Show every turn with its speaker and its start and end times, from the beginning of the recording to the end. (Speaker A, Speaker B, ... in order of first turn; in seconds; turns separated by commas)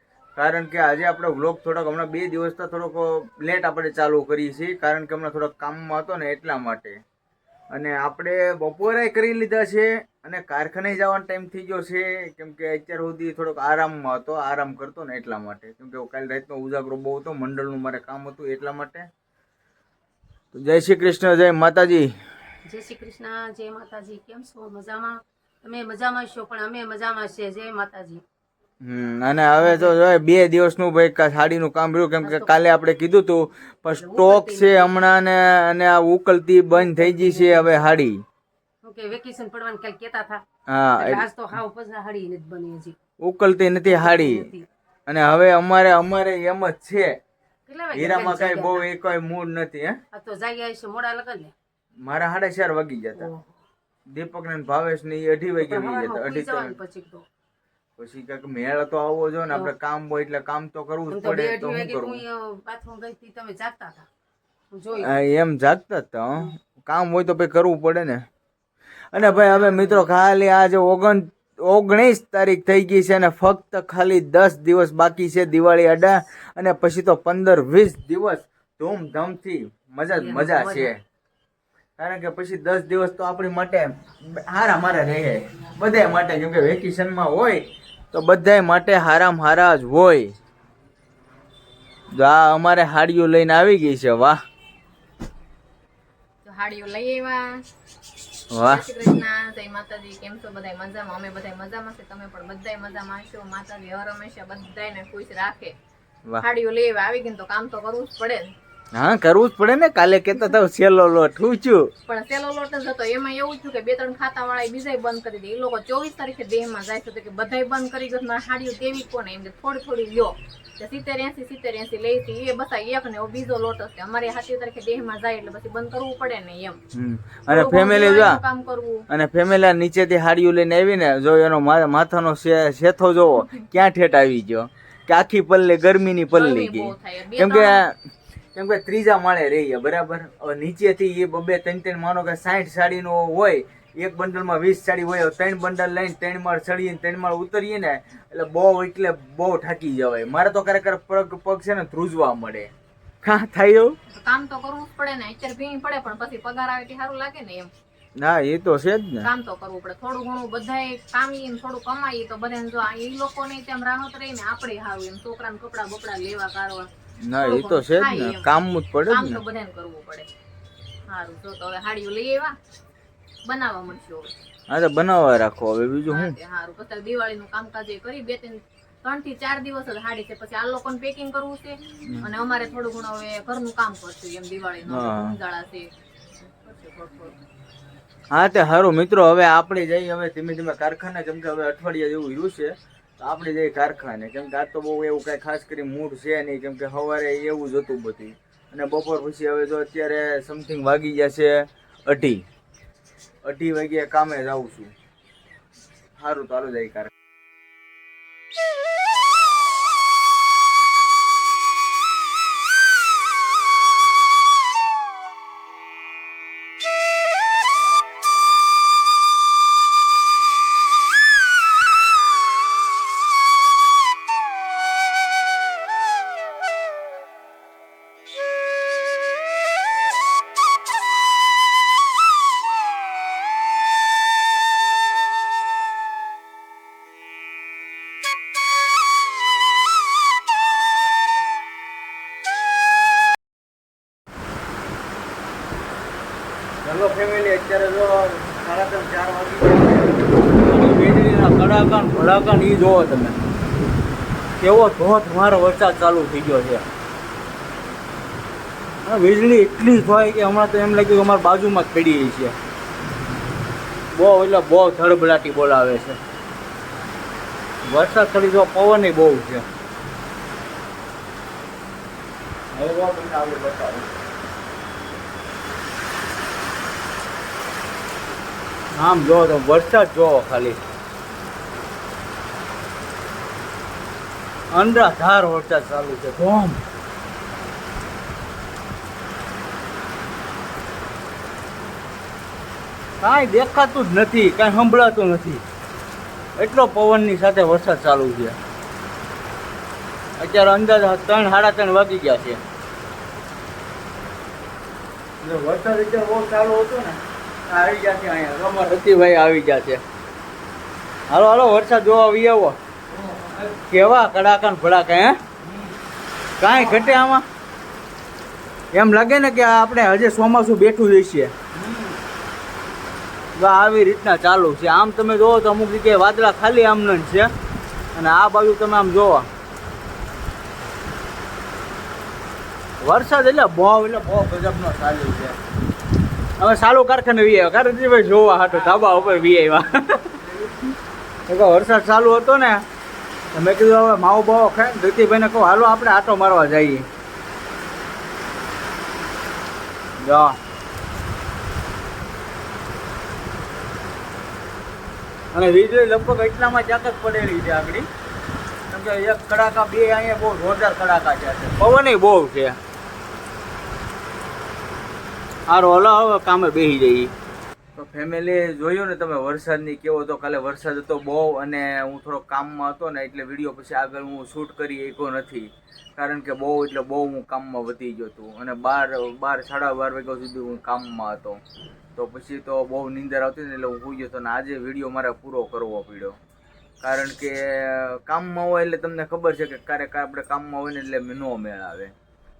Speaker A: 0.3-7.0, Speaker A: 7.7-19.1, Speaker A: 20.5-22.1, Speaker B: 22.6-28.2, Speaker A: 28.8-38.2, Speaker B: 29.6-29.9, Speaker B: 32.2-32.6, Speaker B: 34.0-34.9, Speaker B: 36.7-37.9, Speaker B: 38.8-40.4, Speaker A: 40.7-41.2, Speaker B: 41.0-43.0, Speaker A: 43.2-44.5, Speaker B: 43.8-44.7, Speaker A: 45.1-47.1, Speaker B: 47.7-48.9, Speaker A: 47.9-50.0, Speaker B: 50.1-51.5, Speaker A: 52.0-53.3, Speaker B: 53.1-53.5, Speaker A: 54.1-56.7, Speaker B: 55.6-57.2, Speaker A: 58.0-62.2, Speaker B: 61.1-64.1, Speaker B: 64.7-65.1, Speaker A: 65.0-68.2, Speaker A: 69.1-81.0, Speaker B: 69.2-70.1, Speaker B: 80.2-80.9, Speaker A: 82.0-90.3, Speaker A: 92.1-94.3, Speaker C: 96.4-97.6, Speaker A: 98.5-98.8, Speaker C: 98.6-105.7, Speaker C: 106.4-108.5, Speaker A: 108.9-111.9, Speaker C: 112.1-126.8, Speaker A: 126.9-128.4, Speaker C: 127.5-129.0, Speaker A: 129.1-137.9, Speaker C: 136.3-137.8, Speaker A: 138.5-152.7, Speaker A: 153.2-154.0, Speaker C: 154.2-157.7, Speaker A: 158.2-159.3, Speaker C: 159.2-168.5, Speaker A: 167.2-169.4, Speaker C: 169.1-170.3, Speaker C: 171.1-172.5, Speaker C: 173.4-174.3, Speaker A: 174.7-176.3, Speaker C: 176.1-185.9, Speaker A: 184.9-185.3, Speaker C: 186.6-187.3, Speaker A: 188.3-202.4, Speaker A: 203.4-204.9, Speaker A: 206.2-207.1, Speaker A: 246.8-253.4, Speaker A: 254.6-256.9, Speaker A: 259.0-262.5, Speaker A: 264.1-266.2, Speaker A: 267.9-269.6, Speaker A: 272.7-274.1, Speaker A: 278.9-280.8, Speaker A: 284.7-286.8, Speaker A: 293.2-295.6, Speaker A: 296.6-298.6, Speaker A: 300.4-302.6, Speaker A: 305.4-310.0, Speaker A: 311.3-312.8, Speaker A: 313.4-315.5, Speaker A: 316.6-317.4, Speaker A: 318.9-321.7, Speaker A: 323.6-327.5, Speaker A: 328.1-329.5, Speaker A: 333.0-335.6, Speaker A: 336.6-340.7, Speaker A: 341.5-342.8, Speaker A: 343.5-347.1, Speaker A: 350.2-350.6, Speaker A: 355.5-358.1, Speaker A: 358.9-362.8, Speaker A: 365.7-367.3, Speaker A: 367.9-381.6, Speaker A: 382.1-386.4, Speaker A: 387.0-392.1